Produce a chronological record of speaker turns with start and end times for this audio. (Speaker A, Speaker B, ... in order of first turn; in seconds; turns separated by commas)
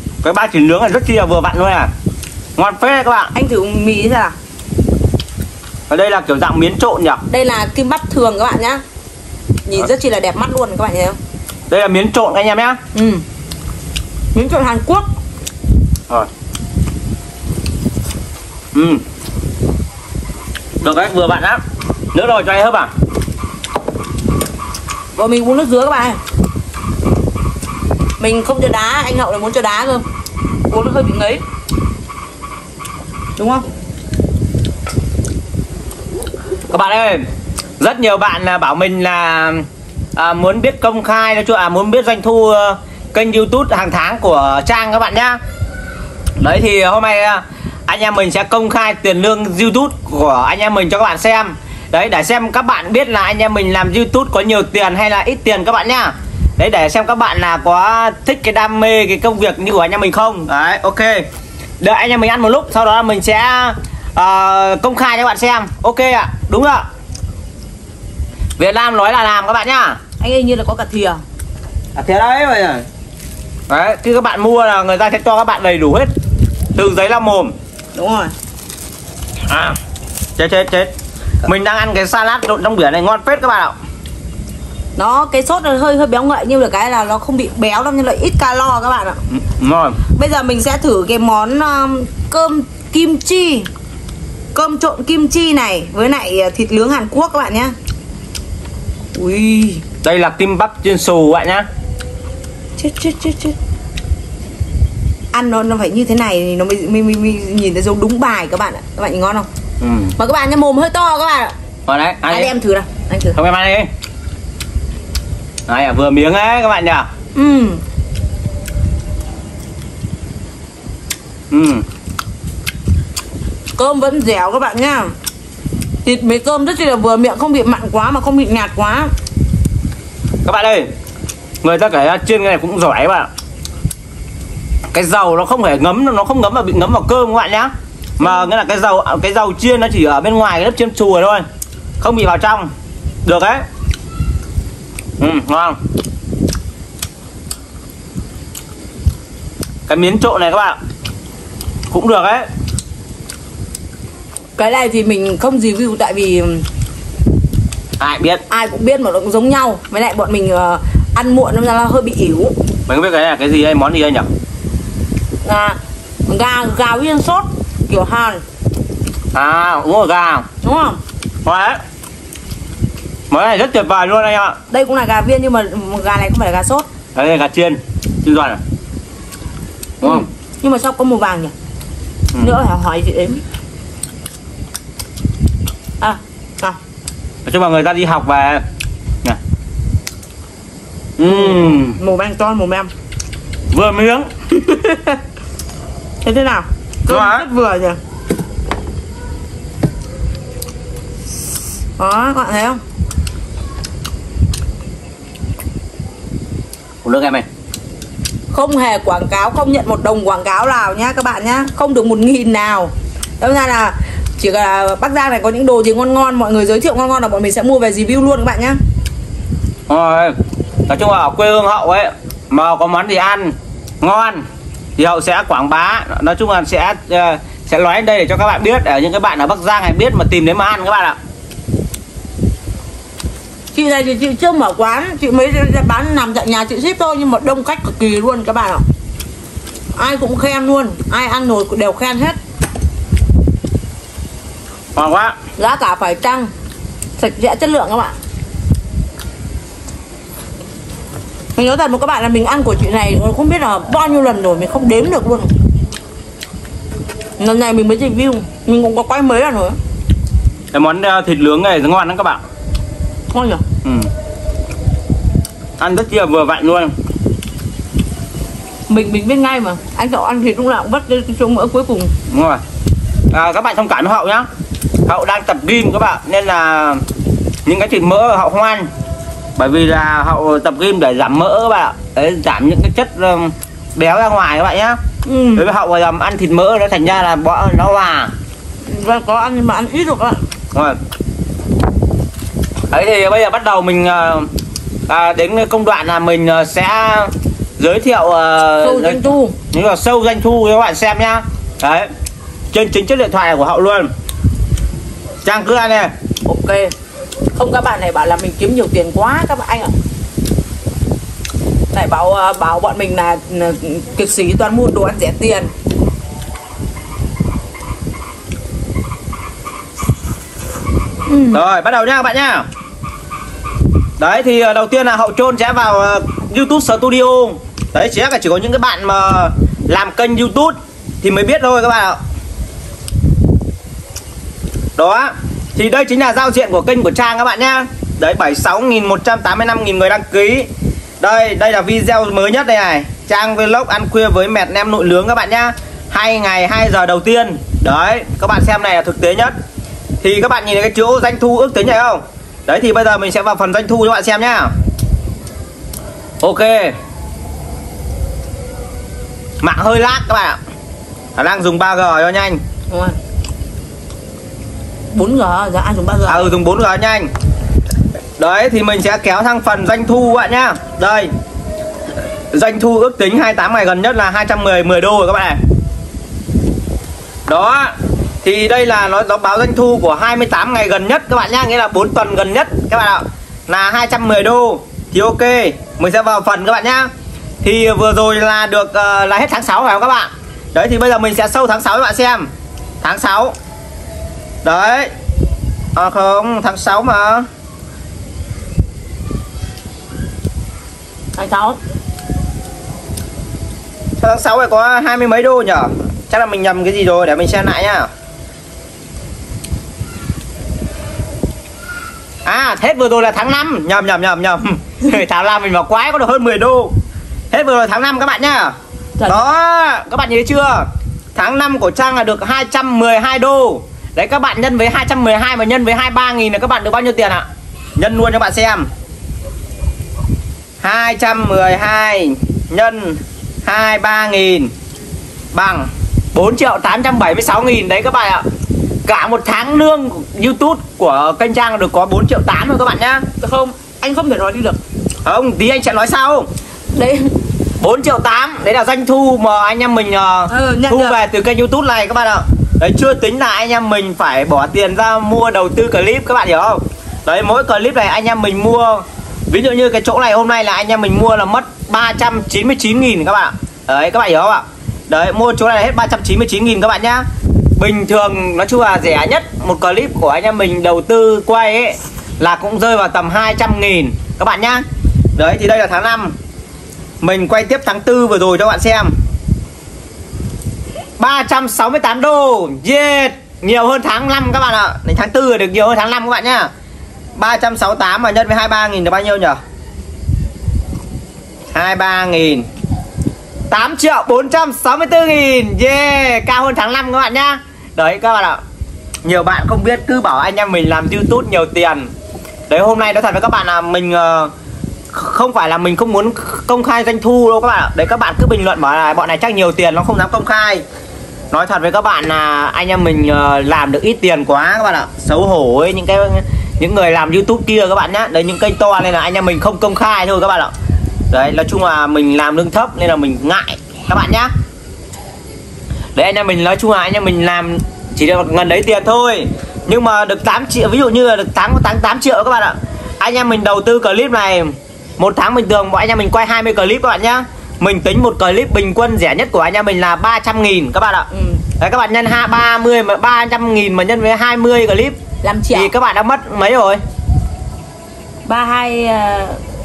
Speaker A: 0.2-1.9, Speaker A: 2.6-3.3, Speaker B: 3.3-4.3, Speaker A: 5.9-7.2, Speaker B: 7.3-8.8, Speaker B: 9.7-11.2, Speaker A: 11.7-12.8, Speaker B: 12.9-13.2, Speaker B: 14.3-15.1, Speaker A: 18.7-19.0, Speaker A: 20.8-21.6, Speaker A: 22.1-22.9, Speaker B: 25.2-26.2, Speaker B: 28.2-30.0, Speaker B: 30.7-31.4, Speaker B: 33.4-33.6, Speaker A: 36.7-37.2, Speaker A: 37.8-45.4, Speaker A: 46.4-61.3, Speaker A: 61.8-66.8, Speaker A: 68.6-70.0, Speaker B: 70.2-71.2, Speaker A: 72.0-72.8, Speaker A: 73.7-76.1, Speaker A: 76.8-77.5, Speaker B: 77.9-78.3, Speaker A: 79.5-79.8, Speaker A: 80.4-80.9, Speaker A: 81.4-83.8, Speaker B: 85.0-89.2, Speaker A: 89.3-90.0, Speaker B: 90.2-93.7, Speaker B: 94.5-97.8, Speaker B: 99.2-99.8, Speaker A: 100.0-101.7, Speaker B: 102.8-103.6, Speaker B: 105.3-109.5, Speaker A: 109.8-110.1, Speaker B: 110.2-111.5, Speaker A: 111.9-112.5, Speaker B: 112.3-113.4, Speaker A: 113.3-113.9, Speaker A: 115.7-117.1, Speaker B: 117.3-117.8, Speaker A: 121.5-121.8, Speaker B: 123.8-125.2, Speaker B: 126.0-129.1, Speaker A: 130.4-130.9, Speaker A: 131.6-133.3, Speaker A: 134.9-141.4, Speaker A: 142.0-142.7, Speaker A: 143.2-143.6, Speaker A: 145.2-145.8, Speaker A: 149.9-150.8, Speaker A: 151.9-152.5, Speaker B: 154.6-156.7, Speaker A: 158.0-158.4, Speaker B: 158.5-162.6, Speaker A: 162.9-164.3, Speaker B: 165.4-168.4, Speaker A: 169.3-170.5, Speaker B: 170.6-171.0, Speaker A: 171.4-171.8, Speaker A: 173.3-174.6, Speaker B: 174.7-176.9, Speaker A: 177.2-178.6, Speaker B: 180.0-181.5, Speaker B: 182.4-183.4, Speaker B: 186.0-186.8, Speaker A: 187.5-188.6, Speaker A: 191.2-192.0, Speaker B: 191.2-192.9, Speaker A: 193.7-194.3, Speaker B: 194.5-195.2, Speaker B: 196.2-198.0, Speaker A: 197.1-197.5, Speaker B: 202.0-202.8, Speaker A: 207.0-207.5, Speaker B: 208.5-218.8, Speaker A: 219.9-220.4, Speaker A: 220.9-224.4, Speaker A: 225.0-231.2, Speaker B: 233.7-238.8, Speaker B: 239.9-242.4, Speaker A: 244.9-245.3, Speaker B: 245.6-246.5, Speaker B: 247.2-248.1, Speaker B: 251.6-255.5, Speaker B: 257.4-259.8, Speaker A: 260.7-262.4, Speaker B: 263.3-263.6, Speaker A: 263.8-264.1, Speaker A: 265.8-266.9, Speaker B: 268.9-272.1, Speaker A: 272.3-272.6, Speaker A: 273.3-274.5, Speaker A: 275.1-277.0, Speaker A: 277.7-278.9, Speaker A: 279.6-285.0, Speaker B: 285.2-285.7, Speaker A: 285.6-288.3, Speaker B: 288.8-290.4, Speaker A: 292.9-294.5, Speaker A: 295.1-302.1, Speaker B: 298.8-299.6, Speaker A: 302.7-304.1, Speaker A: 305.4-306.1, Speaker B: 306.4-306.9, Speaker B: 307.6-309.9, Speaker B: 311.9-315.7, Speaker B: 321.3-321.6, Speaker A: 321.5-322.6, Speaker A: 324.2-332.2, Speaker A: 335.0-340.7, Speaker A: 341.2-349.5, Speaker A: 350.2-354.7, Speaker A: 356.4-357.0, Speaker A: 359.6-360.6, Speaker A: 361.4-362.6, Speaker B: 362.9-363.2, Speaker B: 365.1-366.5, Speaker A: 366.3-367.3, Speaker A: 368.4-371.3, Speaker A: 372.5-375.6, Speaker A: 377.5-377.9, Speaker A: 378.4-387.1, Speaker A: 387.6-392.5, Speaker A: 393.0-393.6, Speaker A: 394.6-395.1, Speaker A: 396.0-397.5, Speaker B: 401.4-401.8, Speaker A: 404.2-408.1, Speaker A: 412.4-416.9, Speaker A: 417.5-427.5, Speaker A: 428.0-428.9, Speaker A: 430.8-434.7, Speaker A: 435.5-438.4, Speaker A: 439.1-443.3, Speaker B: 443.4-444.8, Speaker A: 445.2-446.5, Speaker B: 446.9-447.3, Speaker A: 447.8-467.2, Speaker B: 450.5-451.2, Speaker A: 467.8-474.8, Speaker A: 475.4-476.4, Speaker A: 477.2-479.1, Speaker A: 481.2-486.7, Speaker A: 487.4-489.6, Speaker A: 491.7-492.7, Speaker A: 493.7-498.6, Speaker A: 499.2-502.1, Speaker A: 502.7-504.5, Speaker A: 505.1-510.8, Speaker A: 511.5-520.7, Speaker A: 521.3-524.5, Speaker A: 526.1-541.3, Speaker B: 541.3-541.6, Speaker A: 541.8-545.2, Speaker B: 545.4-545.9, Speaker A: 545.8-547.0, Speaker B: 548.5-549.6